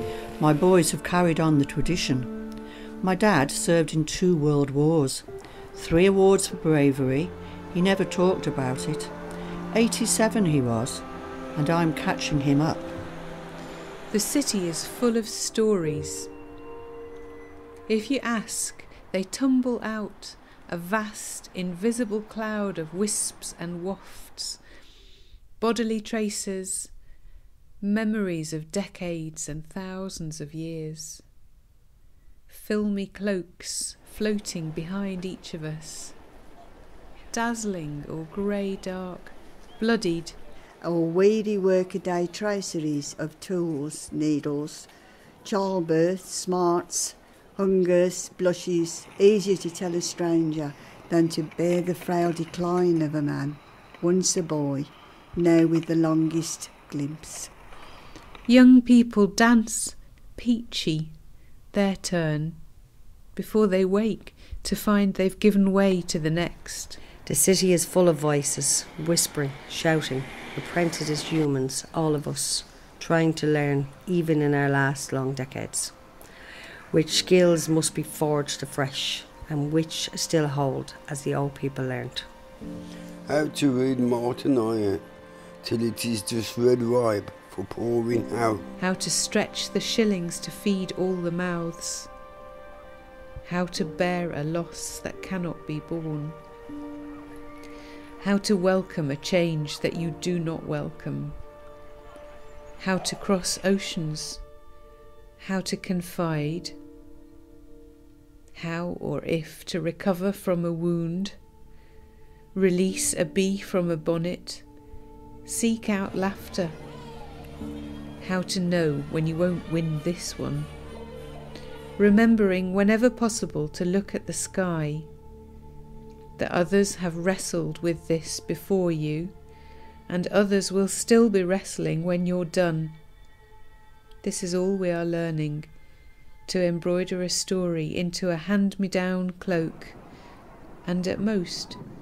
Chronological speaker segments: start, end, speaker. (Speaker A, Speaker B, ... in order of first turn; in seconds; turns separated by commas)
Speaker A: 0.4-2.3, Speaker A: 3.0-9.1, Speaker A: 9.7-12.9, Speaker B: 14.1-16.3, Speaker B: 17.9-24.6, Speaker B: 25.6-26.9, Speaker B: 27.8-31.2, Speaker B: 32.5-36.1, Speaker B: 37.3-40.4, Speaker C: 40.8-44.9, Speaker C: 45.4-57.5, Speaker B: 58.5-61.1, Speaker B: 61.7-62.6, Speaker B: 63.3-67.0, Speaker D: 67.2-75.9, Speaker D: 76.9-82.2, Speaker E: 83.2-85.0, Speaker E: 85.6-88.6, Speaker B: 88.8-92.1, Speaker B: 93.4-96.4, Speaker B: 98.2-101.4, Speaker B: 102.8-104.4, Speaker B: 105.4-106.8, Speaker B: 108.5-111.3, Speaker B: 112.5-114.6, Speaker B: 115.4-116.8, Speaker B: 118.2-120.7, Speaker B: 122.0-125.1, Speaker B: 126.4-129.3, Speaker B: 130.1-133.0, Speaker B: 134.2-135.7, Speaker B: 136.5-140.0, Speaker B: 140.8-141.8